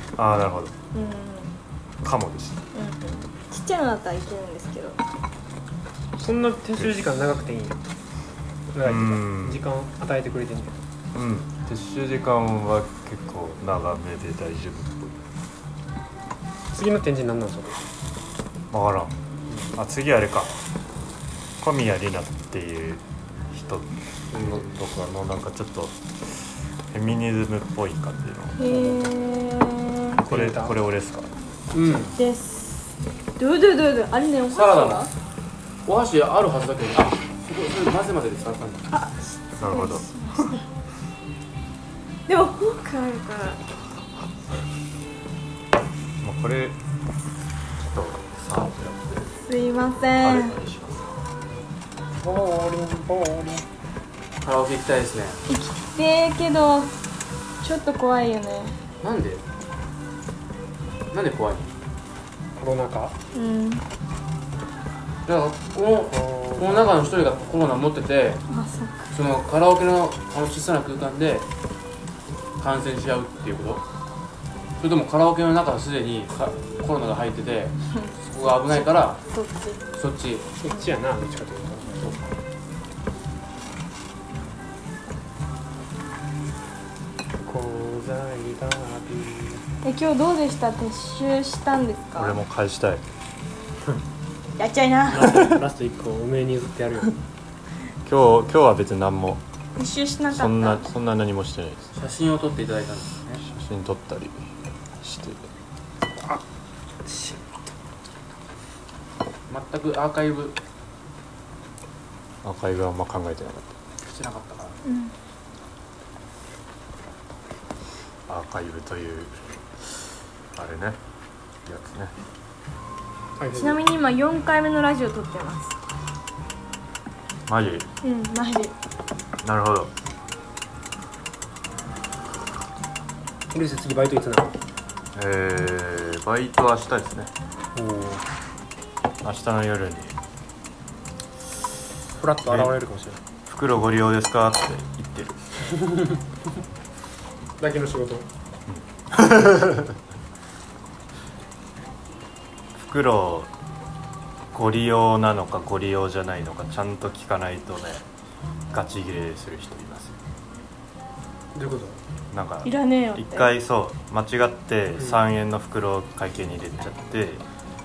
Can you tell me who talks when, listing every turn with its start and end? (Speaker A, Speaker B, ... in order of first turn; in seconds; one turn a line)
Speaker A: 0.2-0.8
Speaker B: 0.9-1.5
Speaker A: 2.0-2.6
Speaker B: 2.7-5.0
Speaker C: 6.2-7.8
Speaker C: 8.7-10.8
Speaker A: 8.8-9.7
Speaker A: 11.1-15.2
Speaker C: 16.7-17.8
Speaker A: 18.7-19.1
Speaker A: 19.8-20.6
Speaker A: 21.6-28.6
Speaker D: 24.3-24.8
Speaker B: 28.6-30.2
Speaker C: 28.6-29.2
Speaker C: 30.2-30.8
Speaker A: 30.2-31.3
Speaker D: 31.7-32.1
Speaker C: 31.8-32.1
Speaker B: 32.2-35.1
Speaker D: 34.5-35.1
Speaker D: 35.9-38.9
Speaker B: 38.9-40.6
Speaker A: 39.6-40.1
Speaker B: 42.3-43.6
Speaker A: 46.2-46.8
Speaker A: 47.8-49.3
Speaker B: 49.4-50.5
Speaker A: 50.2-51.2
Speaker C: 52.2-53.6
Speaker D: 54.4-55.4
Speaker B: 55.5-56.9
Speaker B: 57.6-58.8
Speaker D: 59.0-59.4
Speaker D: 61.1-61.7
Speaker C: 62.6-63.1
Speaker B: 63.3-63.8
Speaker D: 65.2-68.4
Speaker C: 66.1-67.5
Speaker B: 68.5-69.1
Speaker D: 69.1-71.5
Speaker D: 72.6-73.8
Speaker D: 74.8-79.2
Speaker B: 78.7-79.8
Speaker D: 79.9-80.5
Speaker C: 80.6-82.1
Speaker C: 87.4-89.6
Speaker B: 89.8-92.4
Speaker A: 92.2-93.0
Speaker B: 94.6-95.3
Speaker C: 95.1-97.1
Speaker A: 98.0-99.4
Speaker B: 99.8-100.8
Speaker A: 100.3-101.9
Speaker D: 101.9-103.4
Speaker A: 103.4-104.4
Speaker A: 105.0-105.5
Speaker C: 106.1-106.4
Speaker C: 107.0-107.4
Speaker D: 109.5-110.6
Speaker A: 112.4-113.7
Speaker D: 114.0-114.8
Speaker B: 114.8-115.1
Speaker A: 118.3-119.4
Speaker A: 120.5-121.0
Speaker A: 121.7-122.1
Speaker C: 123.4-123.8
Speaker B: 123.6-125.8
Speaker A: 127.5-127.9
Speaker B: 128.0-128.8
Speaker A: 129.4-129.9
Speaker C: 133.5-134.6
Speaker A: 135.1-137.3
Speaker C: 137.8-138.2
Speaker A: 139.2-140.1
Speaker C: 142.2-143.2
Speaker A: 142.4-142.8
Speaker A: 143.4-145.4
Speaker C: 145.7-146.2
Speaker C: 147.6-148.2
Speaker A: 148.7-149.9
Speaker A: 152.8-153.5
Speaker A: 154.5-158.0
Speaker A: 158.7-160.2
Speaker C: 161.5-162.0
Speaker A: 162.3-167.4
Speaker B: 162.6-163.5